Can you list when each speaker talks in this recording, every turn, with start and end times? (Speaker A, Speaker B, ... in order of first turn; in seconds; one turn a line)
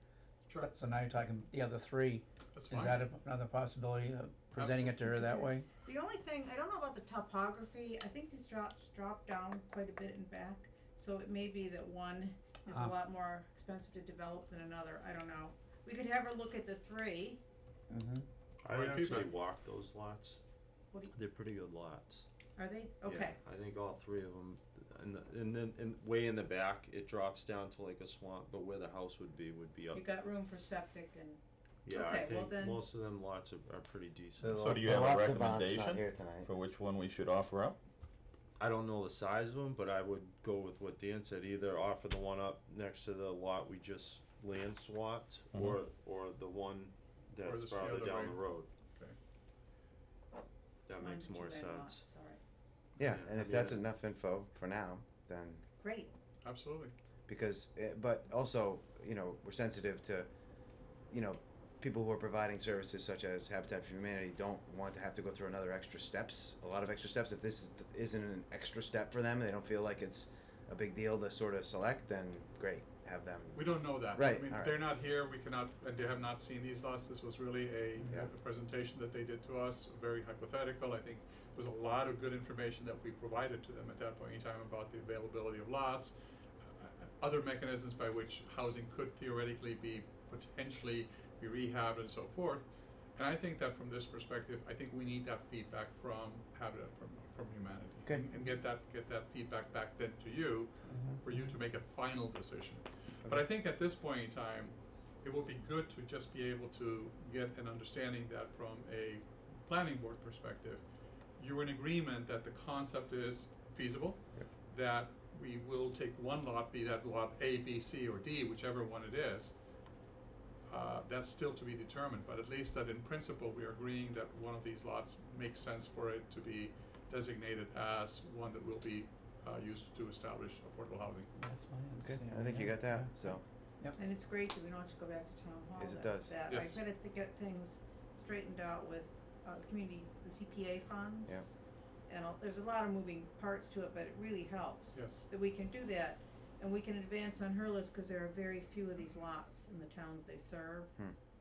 Speaker A: 0.6-5.7
Speaker B: 2.5-3.0
Speaker B: 4.5-5.0
Speaker C: 5.0-17.4
Speaker A: 12.7-12.9
Speaker A: 17.9-18.2
Speaker D: 18.6-20.4
Speaker B: 18.6-19.3
Speaker D: 21.1-22.3
Speaker C: 22.6-23.4
Speaker D: 23.0-30.1
Speaker C: 29.9-32.9
Speaker D: 31.8-34.8
Speaker E: 34.4-36.5
Speaker F: 34.4-37.8
Speaker D: 38.6-48.7
Speaker F: 45.5-45.8
Speaker B: 47.4-49.1
Speaker D: 50.9-52.1
Speaker C: 51.0-52.4
Speaker E: 53.0-55.6
Speaker D: 53.0-53.8
Speaker C: 55.8-56.1
Speaker B: 56.4-56.9
Speaker E: 57.3-60.3
Speaker E: 61.1-74.8
Speaker B: 73.5-110.8
Speaker A: 78.0-78.3
Speaker A: 100.9-101.5
Speaker B: 111.4-119.5
Speaker B: 120.7-131.3
Speaker A: 131.3-134.0
Speaker E: 132.0-133.4
Speaker C: 133.9-141.5
Speaker E: 135.8-136.4
Speaker B: 136.5-136.8
Speaker C: 142.1-150.9
Speaker B: 144.9-145.2